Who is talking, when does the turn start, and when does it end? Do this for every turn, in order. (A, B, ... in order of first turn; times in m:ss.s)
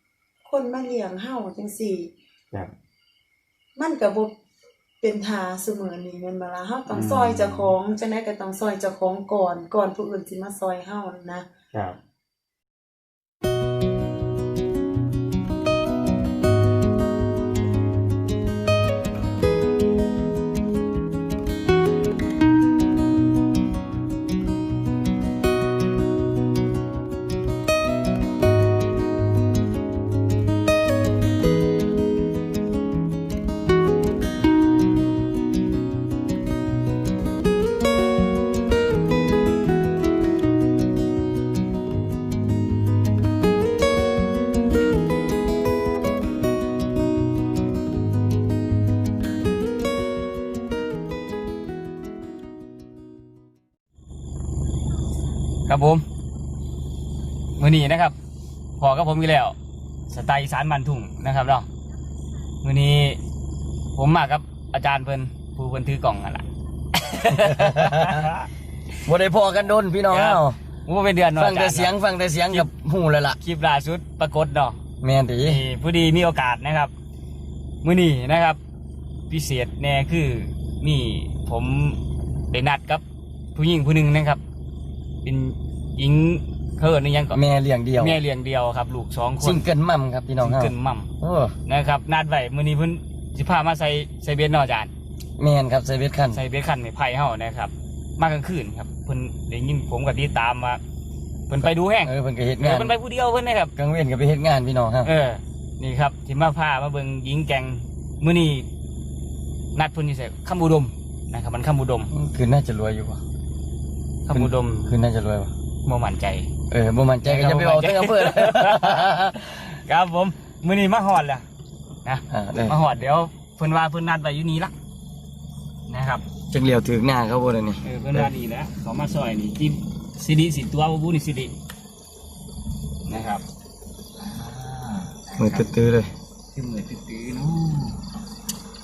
0:00.4-0:02.1 A
0:03.8-0:04.3 A
0:05.0-0:11.5 A
0:06.9-0:07.7 B
0:11.7-0:12.0 B
0:55.7-0:56.0 B
0:57.6-0:58.2 B
0:58.8-0:59.5 B
1:00.1-1:01.7 B
1:02.6-1:03.2 B
1:04.0-1:08.5 B
1:07.2-1:08.3 C
1:09.0-1:10.6 C
1:10.1-1:11.9 B
1:11.3-1:13.4 C
1:13.4-1:14.8 B
1:15.0-1:15.6 C
1:15.4-1:16.9 B
1:17.8-1:18.6 B
1:19.3-1:23.0 B
1:23.5-1:24.4 B
1:25.2-1:27.4 B
1:27.3-1:28.2 C
1:28.0-1:29.6 B
1:29.4-1:31.6 C
1:30.4-1:31.1 B
1:31.7-1:34.9 B
1:35.4-1:36.4 C
1:36.3-1:40.8 B
1:41.5-1:43.7 B
1:42.0-1:42.9 C
1:43.8-1:45.1 C
1:45.0-1:48.6 B
1:49.7-1:52.1 B
1:52.1-1:53.2 C
1:54.2-1:55.0 B
1:54.3-1:55.5 C
1:55.8-1:56.5 B
1:56.7-1:59.6 C
1:57.2-2:01.4 B
2:02.0-2:04.7 B
2:02.3-2:02.8 C
2:05.9-2:06.2 B
2:06.5-2:08.3 C
2:07.8-2:11.5 B
2:13.1-2:13.4 B
2:14.2-2:16.1 C
2:15.3-2:15.7 B
2:16.5-2:18.0 B